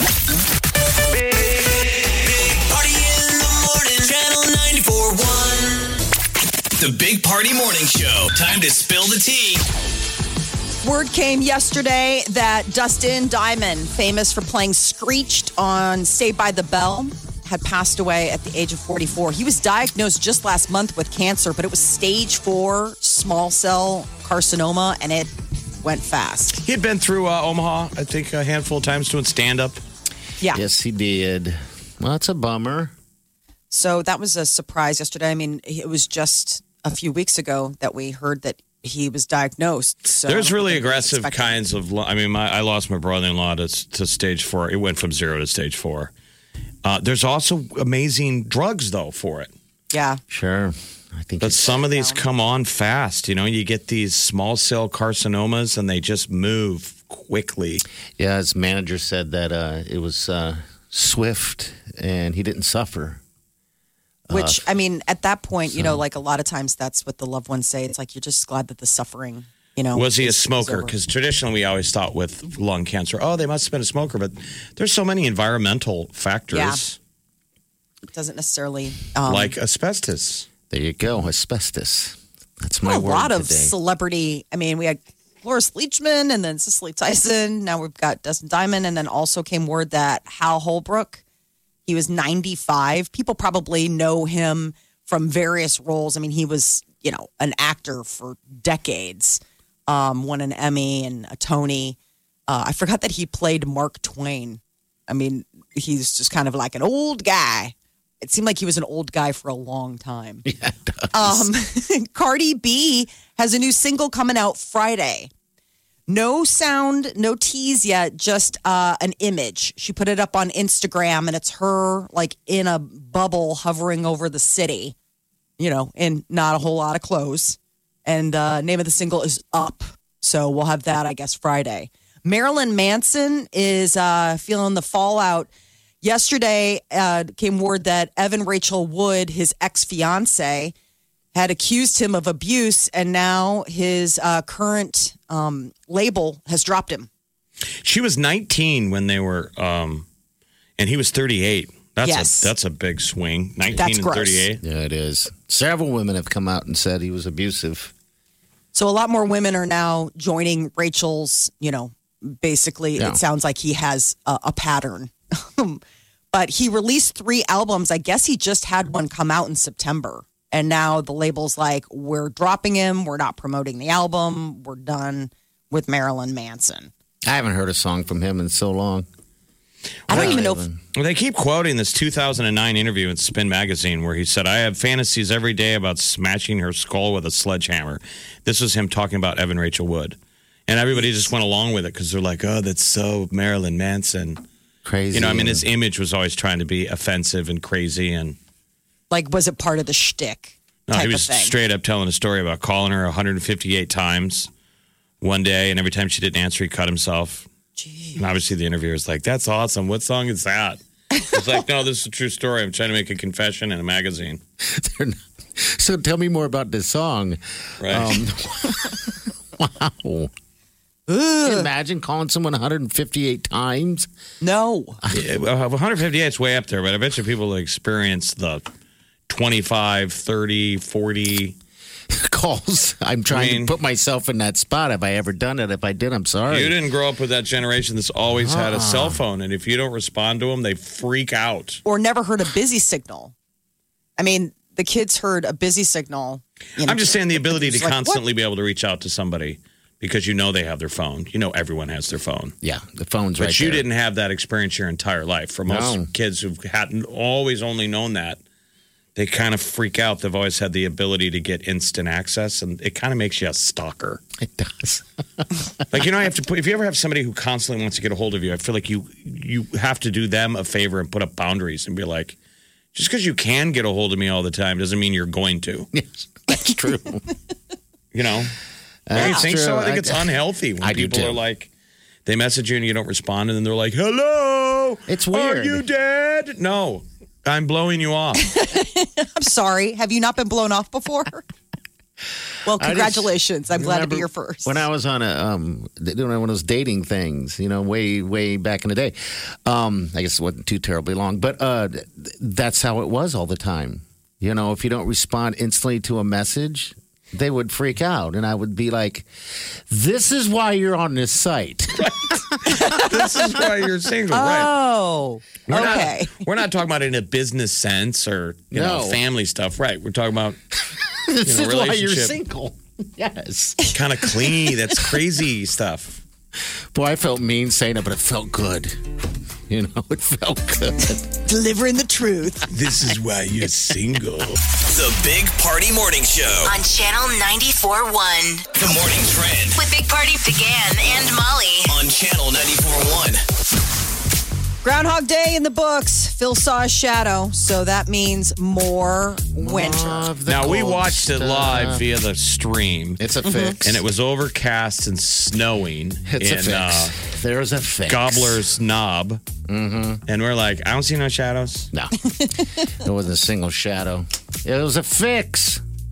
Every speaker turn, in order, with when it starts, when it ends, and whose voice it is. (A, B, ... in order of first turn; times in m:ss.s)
0:01.2-0:05.9 A
0:06.8-0:09.6 A
0:10.8-0:25.3 B
0:25.8-0:26.6 B
0:26.6-0:29.8 C
0:30.5-0:32.9 D
0:33.7-0:41.6 B
0:40.2-0:46.1 C
0:46.8-0:49.5 C
0:49.9-0:50.2 B
0:50.3-0:51.8 D
0:51.4-0:57.8 C
0:51.8-0:52.2 B
0:58.2-1:03.2 D
1:04.3-1:04.6 D
1:04.3-1:10.9 B
1:05.7-1:06.0 D
1:09.9-1:17.0 C
1:16.5-1:16.8 B
1:18.1-1:19.5 B
1:19.2-1:20.5 C
1:20.7-1:23.7 D
1:22.8-1:31.2 B
1:31.9-1:42.0 B
1:42.5-1:50.4 B
1:50.4-1:51.5 D
1:51.1-1:55.3 B
1:56.1-2:04.9 B
2:05.6-2:15.5 B
2:16.0-2:20.7 B
2:21.3-2:27.1 B
2:27.8-2:30.0 C
2:30.8-2:34.6 C
2:32.0-2:32.5 B
2:33.8-2:34.4 B
2:34.6-2:37.9 D
2:38.7-2:45.8 B
2:43.0-2:43.2 D
2:46.3-2:56.9 B
2:57.2-2:59.1 D
3:00.1-3:00.6 B
3:00.1-3:00.8 D
3:00.1-3:00.4 C
3:00.9-3:10.2 C
3:10.7-3:14.4 C
3:11.0-3:11.2 B
3:14.8-3:15.6 D
3:15.1-3:18.4 C
3:19.1-3:21.5 B
3:20.9-3:24.5 C
3:25.2-3:27.5 C
3:27.8-3:28.2 B
3:28.2-3:34.4 C
3:34.6-3:40.3 D
3:37.8-3:38.2 C
3:41.1-3:41.7 B
3:41.4-3:44.1 D
3:44.4-3:45.0 B
3:45.1-3:48.6 C
3:49.3-3:51.6 C
3:52.1-3:56.8 D
3:53.3-3:53.7 C
3:56.5-4:01.8 C
3:58.4-3:59.2 D
4:01.8-4:03.3 B
4:04.2-4:08.2 B
4:06.8-4:12.5 C
4:12.6-4:13.8 D
4:13.4-4:18.4 C
4:15.7-4:16.1 D
4:19.2-4:24.2 C
4:24.4-4:25.6 D
4:25.9-4:32.4 C
4:32.9-4:35.9 C
4:35.9-4:37.2 D
4:38.1-4:38.5 C
4:39.1-4:41.4 D
4:39.1-4:41.7 C
4:39.2-4:39.4 B
4:42.2-4:48.4 C
4:45.1-4:45.8 D
4:48.5-4:51.4 B
4:52.6-4:54.8 B
4:52.8-5:09.3 D
5:09.9-5:12.9 D
5:12.0-5:14.7 C
5:12.7-5:13.1 B
5:14.3-5:16.4 B
5:15.7-5:20.6 C
5:18.7-5:19.2 D
5:21.3-5:23.9 D
5:21.4-5:22.3 C
5:23.9-5:26.2 C
5:26.9-5:29.0 D
5:29.7-5:31.3 D
5:31.4-5:32.7 B
5:32.7-5:34.6 C
5:34.9-5:36.7 A
5:36.6-5:38.6 E
5:38.8-5:39.8 A
5:39.8-5:42.0 E
5:41.9-5:43.4 A
5:44.8-5:50.3 B
5:49.6-5:52.0 D
5:50.4-5:53.2 C
5:53.2-5:54.0 D
5:53.4-5:53.8 B
5:53.8-5:57.1 C
5:56.3-5:58.6 D
5:58.1-5:59.4 C
5:59.7-6:00.2 D
6:00.3-6:01.9 C
6:01.9-6:02.3 D
6:02.8-6:05.8 D